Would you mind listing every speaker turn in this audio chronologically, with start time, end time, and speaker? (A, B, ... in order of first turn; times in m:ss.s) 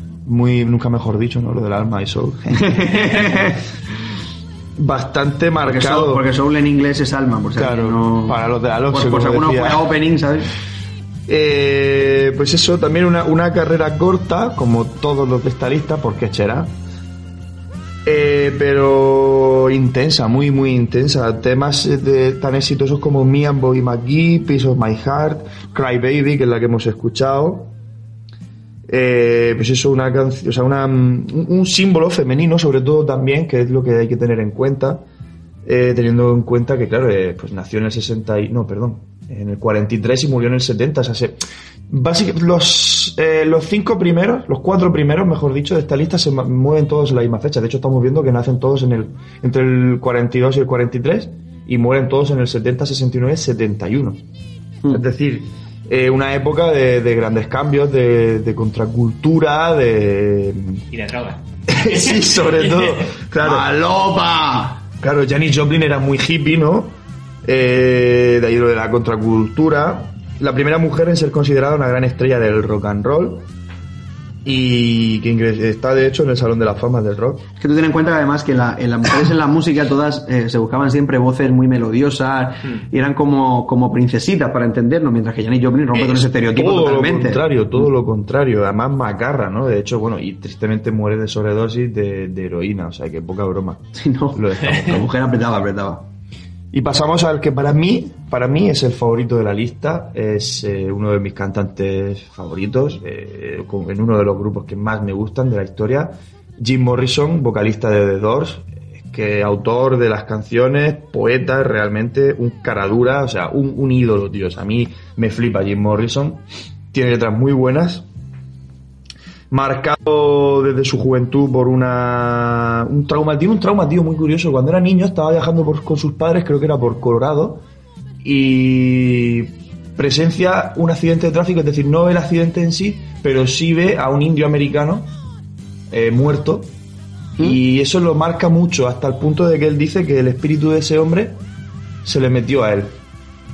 0:00.3-0:03.4 A
0:02.5-0:03.6 B
0:04.8-0:06.2 A
0:05.6-0:08.4 B
0:07.6-0:09.9 A
0:08.9-0:10.5 B
0:11.3-0:16.7 A
0:18.1-0:27.7 A
0:28.9-0:35.0 A
0:35.6-0:41.4 A
0:41.9-0:54.2 A
0:54.9-1:00.8 A
1:00.9-1:03.1 C
1:01.7-1:03.7 A
1:03.4-1:04.8 B
1:05.0-1:13.5 A
1:14.4-1:17.5 A
1:17.6-1:27.8 B
1:26.0-1:35.1 A
1:34.0-1:36.1 B
1:36.7-1:58.0 A
1:59.5-2:07.6 A
2:08.2-2:15.1 A
2:15.9-2:16.7 A
2:17.4-2:21.4 A
2:22.0-2:23.0 A